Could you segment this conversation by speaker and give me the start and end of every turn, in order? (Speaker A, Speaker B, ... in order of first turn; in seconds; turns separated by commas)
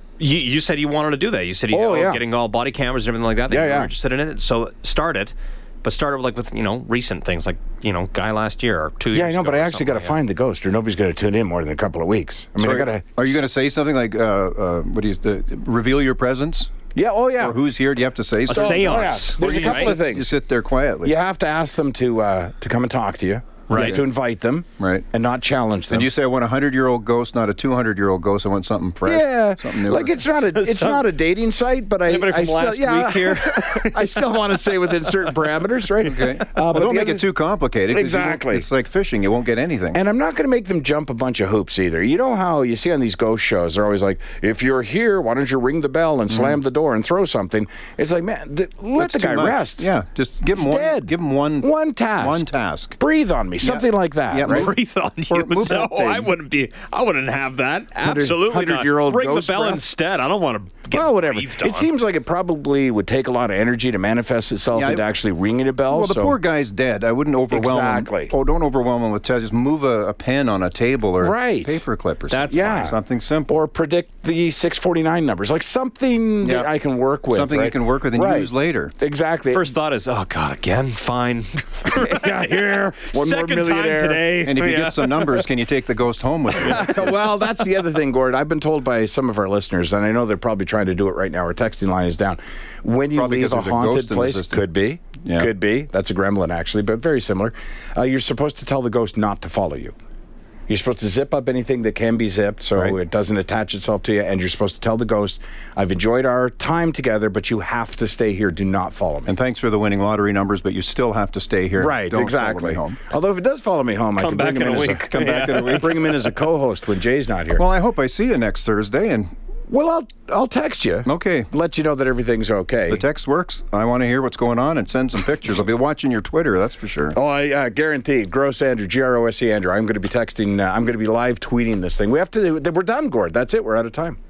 Speaker A: 0.2-10.2, Speaker B: 1.7-2.2, Speaker B: 3.5-3.9, Speaker B: 9.1-13.4, Speaker C: 12.6-16.7, Speaker B: 16.9-17.6, Speaker C: 17.4-21.1, Speaker A: 18.5-20.0, Speaker B: 18.5-20.3, Speaker B: 21.0-26.1, Speaker C: 23.7-24.0, Speaker A: 23.7-24.0, Speaker C: 24.8-25.1, Speaker C: 25.9-30.2, Speaker B: 29.0-37.3, Speaker A: 30.2-31.1, Speaker A: 32.0-35.5, Speaker C: 36.0-40.0, Speaker B: 37.9-38.6, Speaker B: 39.9-49.9, Speaker C: 46.3-46.6, Speaker C: 49.0-53.0, Speaker B: 50.5-52.5, Speaker B: 53.0-54.7, Speaker C: 53.6-54.7, Speaker A: 54.4-61.9, Speaker C: 55.3-56.3, Speaker B: 55.6-56.0, Speaker B: 58.0-59.8, Speaker B: 60.9-66.4, Speaker C: 64.7-65.0, Speaker C: 65.9-73.5, Speaker B: 67.5-68.3, Speaker B: 71.2-71.8, Speaker A: 72.3-72.9, Speaker B: 72.5-79.7, Speaker C: 76.4-76.7, Speaker C: 77.3-78.9, Speaker A: 79.5-85.4, Speaker B: 81.8-84.3, Speaker C: 84.4-87.1, Speaker B: 86.6-99.9, Speaker C: 93.1-94.6, Speaker C: 95.2-95.5, Speaker B: 100.7-109.3, Speaker C: 109.3-113.0, Speaker B: 111.8-117.6, Speaker A: 114.2-115.9, Speaker C: 115.1-115.9, Speaker C: 117.5-119.3, Speaker B: 119.7-123.0, Speaker C: 121.0-121.5, Speaker C: 122.9-127.2, Speaker B: 127.1-134.2